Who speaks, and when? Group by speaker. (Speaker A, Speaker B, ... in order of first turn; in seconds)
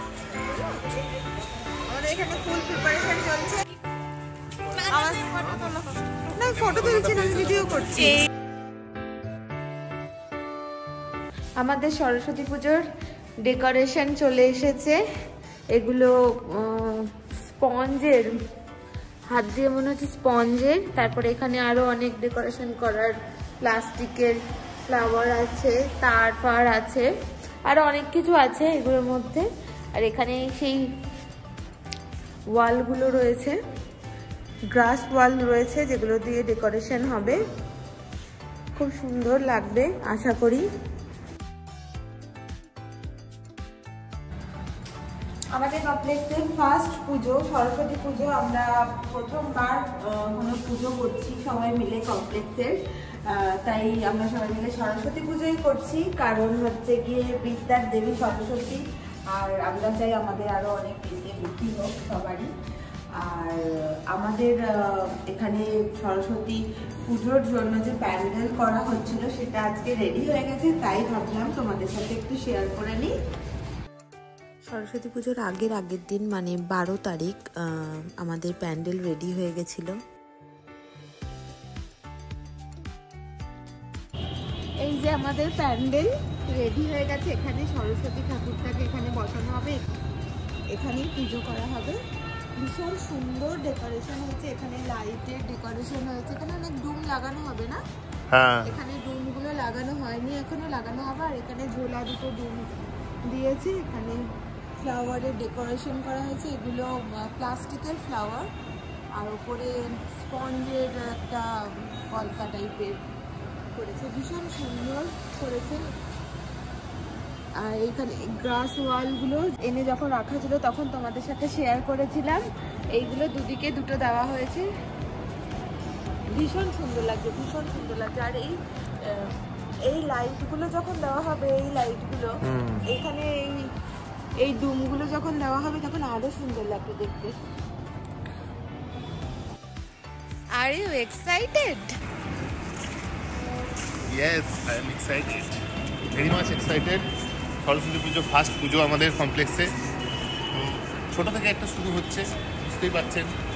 Speaker A: 1.9-3.7, 4.8-8.2, 11.6-12.8, 13.4-15.0, 15.7-17.1, 17.6-18.3, 19.3-27.1, 27.7-30.8, 32.5-33.6, 34.7-37.4, 38.8-40.6, 45.5-62.5, 63.2-73.1, 84.8-89.8, 90.7-92.0, 92.6-97.8, 98.7-102.8, 103.3-104.2, 104.8-108.5, 109.2-113.0, 113.7-115.9, 117.6-124.7, 126.3-129.3, 129.9-133.5, 134.4-137.4, 140.6-141.9
Speaker B: 6.6-7.9, 98.3-98.7, 132.5-132.8, 144.1-145.5, 146.2-147.0, 147.6-149.7, 150.5-153.3
Speaker C: 74.7-79.9